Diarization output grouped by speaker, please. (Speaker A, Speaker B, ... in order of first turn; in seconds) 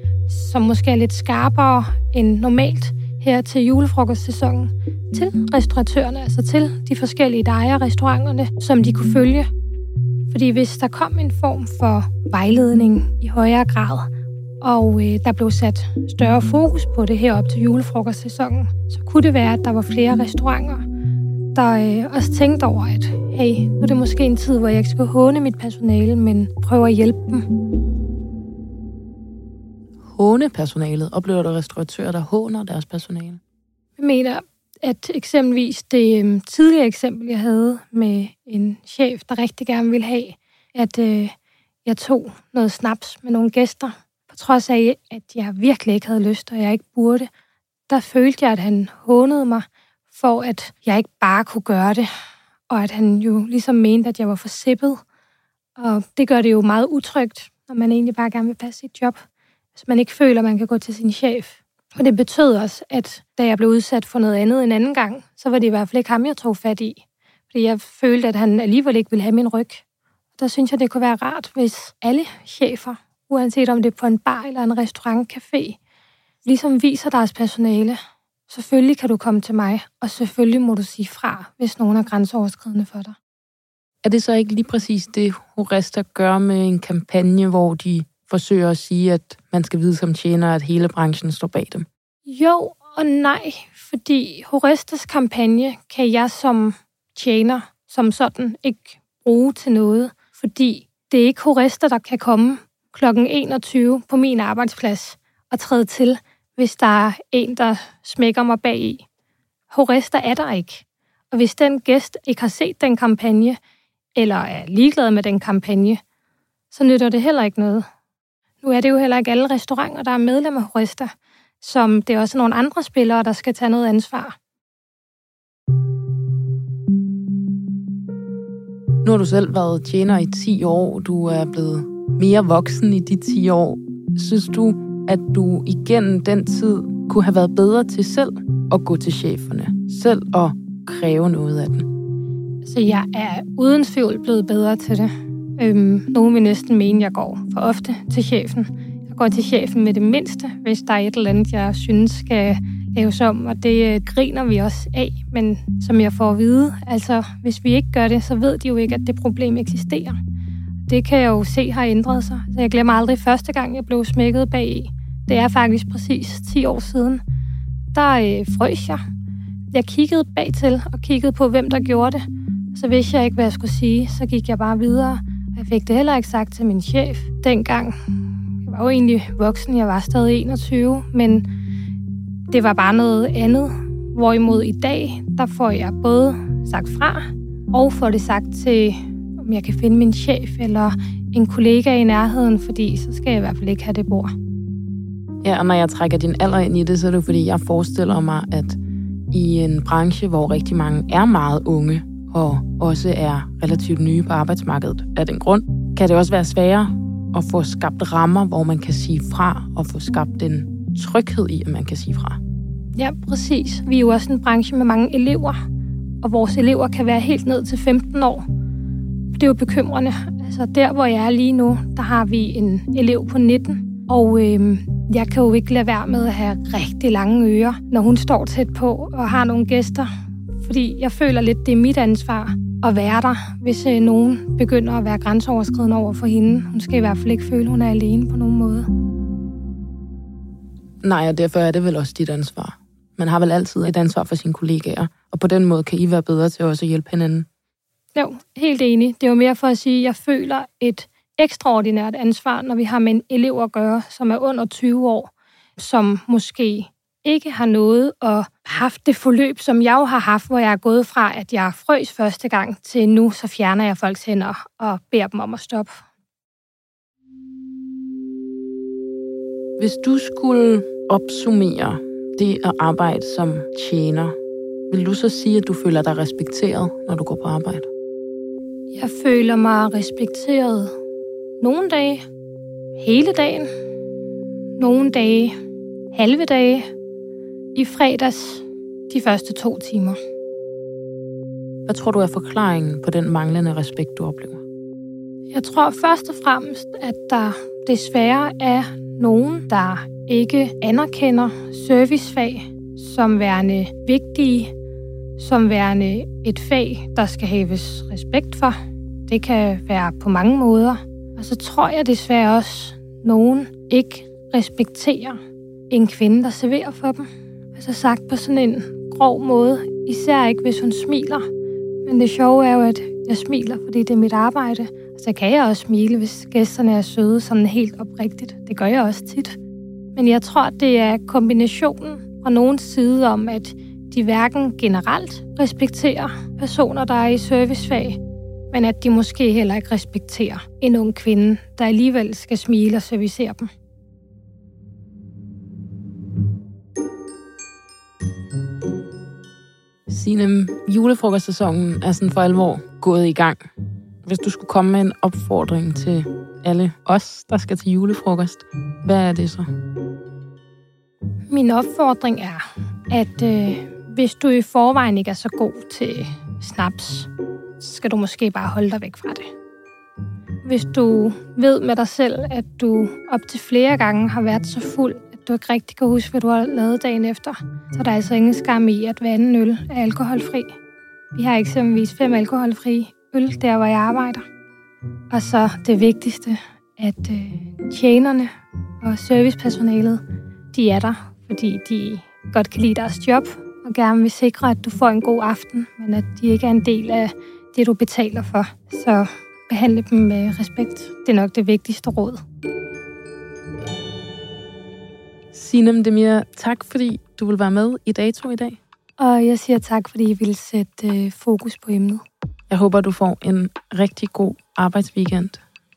Speaker A: 0.3-9.5, 10.3-14.1, 14.6-20.9, 21.6-27.4, 34.0-41.3, 41.9-47.3, 47.9-52.1, 52.7-55.0, 55.8-59.2, 59.8-69.8, 70.4-75.8, 76.5-83.2, 92.3-109.0, 109.7-113.6, 114.2-116.0, 116.7-117.9, 118.6-124.4, 142.6-160.2, 160.9-167.2, 167.9-169.0, 169.7-172.2, 172.7-181.5, 182.5-194.3, 213.0-215.6, 216.2-218.4, 219.3-230.1, 230.6-238.9, 248.2-266.0, 278.9-280.9, 281.6-282.2, 283.0-283.7, 284.8-285.6, 286.1-286.9, 287.8-290.2, 295.5-304.7, 305.4-315.4, 315.9-321.5, 322.1-329.6, 330.2-338.2, 338.7-343.7, 361.5-367.3, 367.8-369.5, 370.6-380.7, 381.4-384.4, 385.3-388.5, 389.0-390.2, 390.7-402.4, 409.2-412.2
Speaker B: 30.0-33.4, 84.0-91.9, 129.0-141.9, 195.4-198.8, 199.3-212.4, 241.0-247.5, 269.8-274.4, 274.9-277.9, 291.9-294.6, 350.1-353.6, 354.2-359.7, 405.5-408.8, 412.7-415.6